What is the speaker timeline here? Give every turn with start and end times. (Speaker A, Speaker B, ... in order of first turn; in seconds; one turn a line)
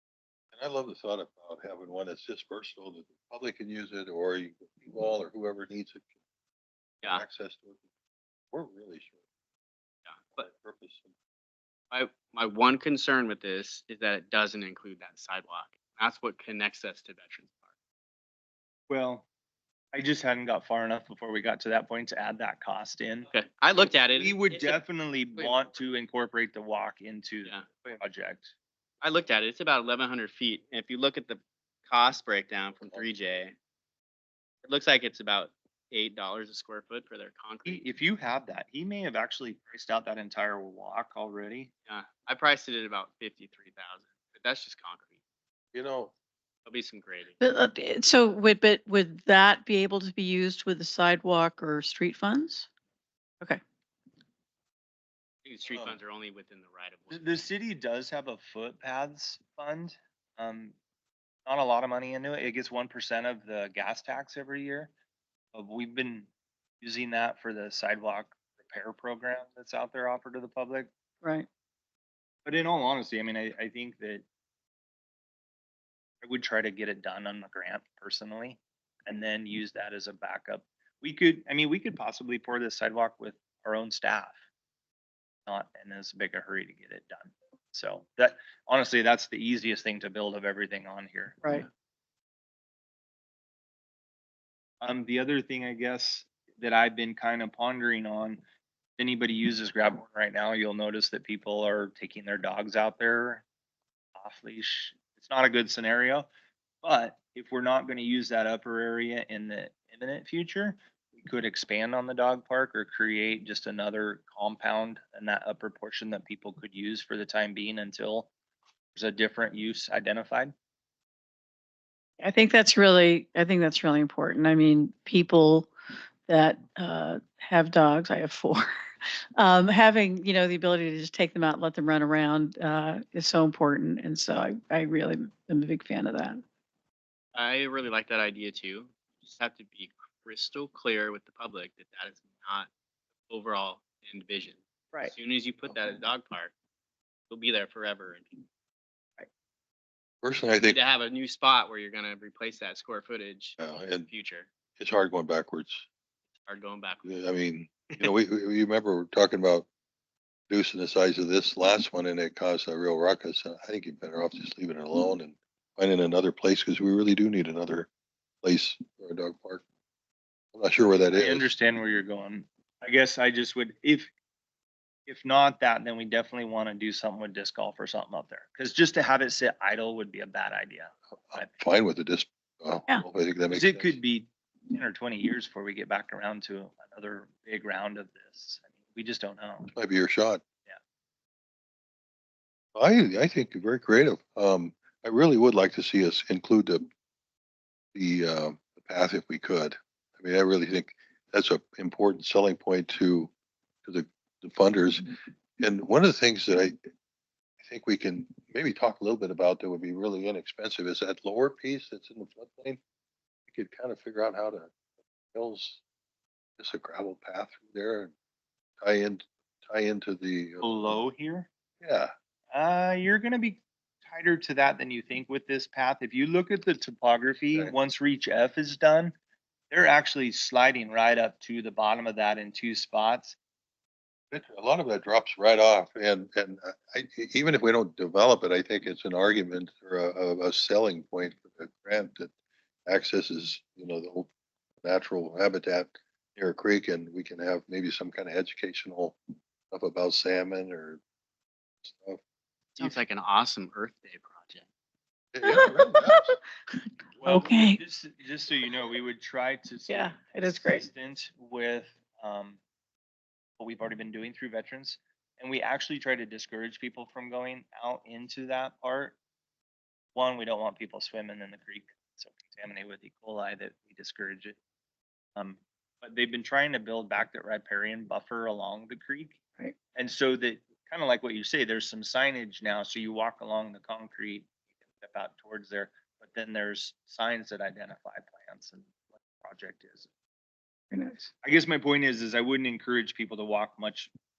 Speaker A: 0.5-6.1
Speaker A: 7.0-7.8
Speaker A: 8.5-9.2
Speaker B: 10.1-10.5
Speaker A: 10.4-11.1
Speaker B: 11.9-17.6
Speaker C: 18.9-19.3
Speaker C: 19.9-23.3
Speaker B: 23.3-24.8
Speaker C: 24.2-28.5
Speaker B: 29.0-33.6
Speaker B: 34.6-37.8
Speaker C: 37.6-41.7
Speaker B: 41.9-45.1
Speaker A: 45.7-46.1
Speaker B: 46.6-47.4
Speaker D: 47.4-52.7
Speaker B: 55.4-57.5
Speaker A: 55.7-56.0
Speaker C: 57.1-60.8
Speaker C: 61.5-64.9
Speaker C: 65.5-66.3
Speaker C: 66.8-70.9
Speaker C: 72.5-74.2
Speaker C: 76.2-84.4
Speaker C: 85.5-91.5
Speaker C: 94.8-98.4
Speaker C: 99.0-103.4
Speaker C: 104.2-106.3
Speaker C: 106.8-118.3
Speaker C: 119.0-120.5
Speaker D: 122.2-125.7
Speaker D: 126.3-128.7
Speaker D: 129.4-136.4
Speaker B: 137.3-142.7
Speaker B: 143.3-146.5
Speaker B: 147.3-148.4
Speaker A: 150.2-150.8
Speaker B: 150.6-154.5
Speaker A: 153.6-154.1
Speaker A: 154.8-155.8
Speaker B: 156.4-157.1
Speaker A: 157.1-159.7
Speaker A: 160.5-167.9
Speaker A: 168.4-169.6
Speaker A: 170.5-171.5
Speaker C: 170.8-174.1
Speaker C: 175.1-181.6
Speaker A: 181.3-184.0
Speaker C: 183.5-189.7
Speaker A: 189.7-190.4
Speaker A: 192.8-196.9
Speaker A: 197.9-203.3
Speaker A: 203.8-206.8
Speaker A: 207.6-212.8
Speaker A: 213.5-214.7
Speaker A: 215.3-215.8
Speaker A: 216.6-218.1
Speaker A: 218.8-221.0
Speaker C: 220.6-221.5
Speaker A: 221.8-222.1
Speaker C: 222.5-229.1
Speaker C: 229.7-233.4
Speaker A: 234.3-242.3
Speaker A: 242.9-244.3
Speaker A: 244.8-249.2
Speaker A: 249.7-251.0
Speaker A: 251.8-252.2
Speaker B: 252.8-254.7
Speaker A: 255.3-256.3
Speaker D: 255.4-256.4
Speaker C: 257.2-262.6
Speaker D: 257.2-257.8
Speaker D: 259.9-260.9
Speaker C: 263.6-269.2
Speaker C: 270.1-274.6
Speaker C: 275.4-279.4
Speaker C: 279.9-284.5
Speaker C: 285.0-290.1
Speaker D: 290.9-291.3
Speaker C: 291.4-294.1